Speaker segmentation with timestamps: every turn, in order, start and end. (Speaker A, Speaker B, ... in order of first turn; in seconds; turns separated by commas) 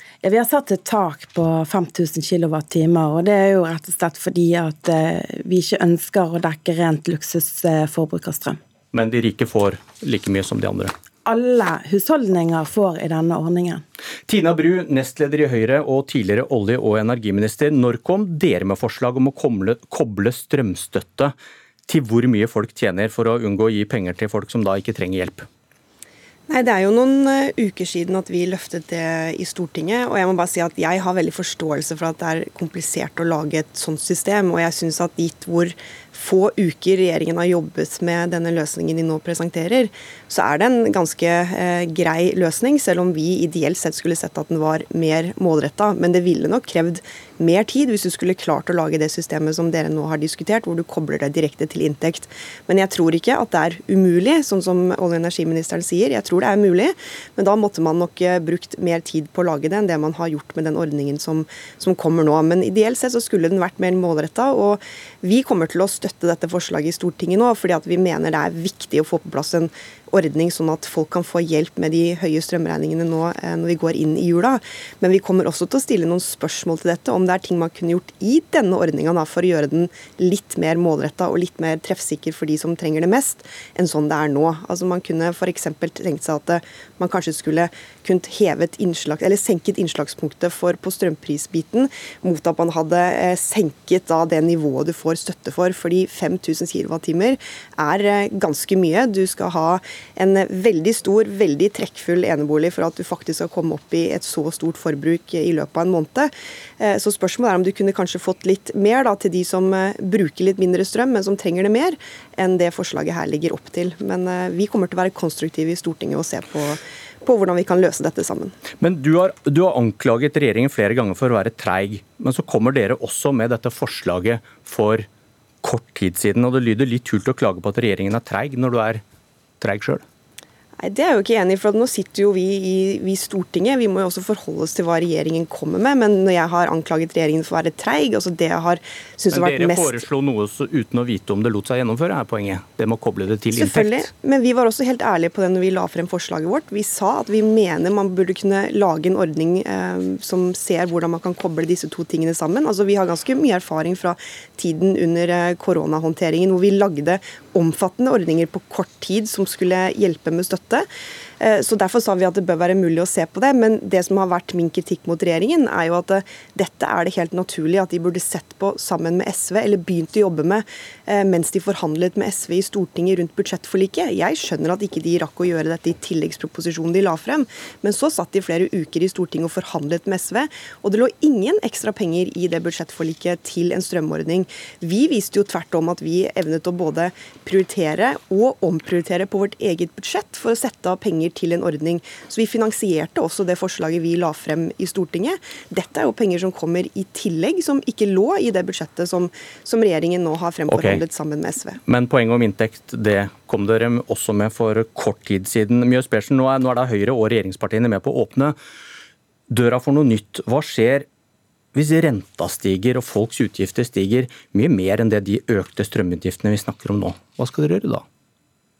Speaker A: 0.2-8.6, Speaker B: 8.9-10.9, Speaker A: 11.2-13.8, Speaker B: 14.3-21.3, Speaker B: 21.9-25.5, Speaker C: 26.5-118.5, Speaker B: 118.8-125.1, Speaker B: 125.6-129.0, Speaker B: 129.6-130.0, Speaker C: 130.8-140.0, Speaker B: 139.3-144.1, Speaker C: 143.5-160.9, Speaker C: 161.4-201.8, Speaker B: 200.7-201.0, Speaker B: 201.8-208.6, Speaker B: 209.5-211.1, Speaker B: 211.7-218.0